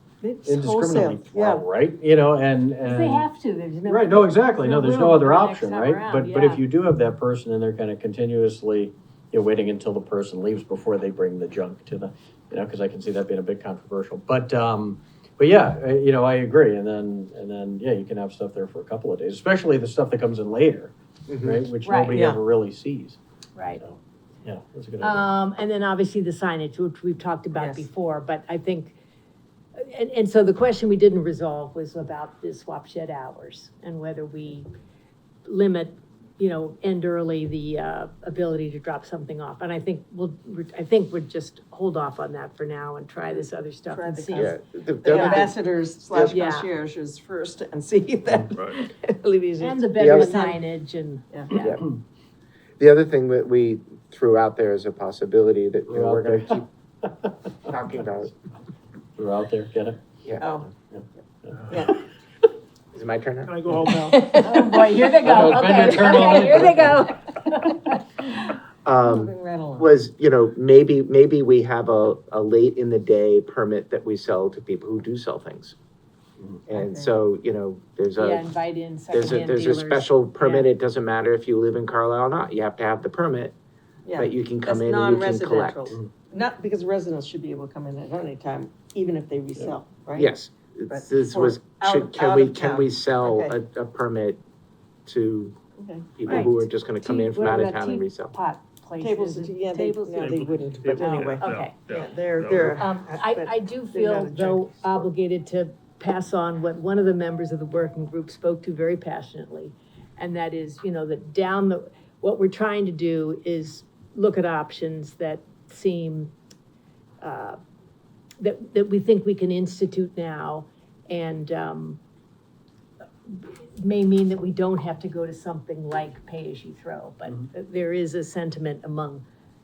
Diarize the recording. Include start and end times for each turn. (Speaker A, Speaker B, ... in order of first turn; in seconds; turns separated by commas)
Speaker A: 0.2-1.6, Speaker B: 0.5-3.3, Speaker C: 2.9-6.7, Speaker B: 3.9-23.2, Speaker D: 21.3-21.6, Speaker C: 21.8-22.2, Speaker A: 22.1-22.4, Speaker C: 23.6-23.8, Speaker B: 23.8-25.3, Speaker C: 25.0-29.0, Speaker A: 27.5-27.9, Speaker C: 29.8-34.7, Speaker C: 35.5-45.5, Speaker A: 43.9-50.6, Speaker D: 44.3-45.5, Speaker C: 46.1-46.7, Speaker E: 48.5-48.8, Speaker C: 49.6-51.8, Speaker D: 50.0-50.3, Speaker D: 51.5-51.9, Speaker D: 52.8-56.7, Speaker B: 55.9-56.6, Speaker D: 57.7-58.3, Speaker B: 59.2-60.0, Speaker A: 60.4-60.7, Speaker B: 60.9-61.6, Speaker A: 61.7-62.0, Speaker D: 62.9-63.5, Speaker E: 63.5-64.4, Speaker C: 63.9-68.3, Speaker A: 64.4-65.0, Speaker B: 65.2-67.0, Speaker D: 65.3-66.2, Speaker D: 68.8-75.8, Speaker A: 69.0-69.9, Speaker D: 76.7-78.5, Speaker A: 76.7-77.1, Speaker C: 78.2-80.7, Speaker D: 79.1-83.5, Speaker A: 84.1-90.3, Speaker D: 84.2-86.0, Speaker D: 90.2-94.4, Speaker A: 90.9-93.6, Speaker D: 95.1-95.6, Speaker A: 95.8-96.5, Speaker D: 96.2-98.3, Speaker C: 96.3-100.4, Speaker A: 99.0-105.1, Speaker E: 100.2-102.8, Speaker C: 101.2-101.7, Speaker C: 102.7-116.3, Speaker C: 117.2-117.6, Speaker C: 118.4-122.0, Speaker C: 123.3-129.2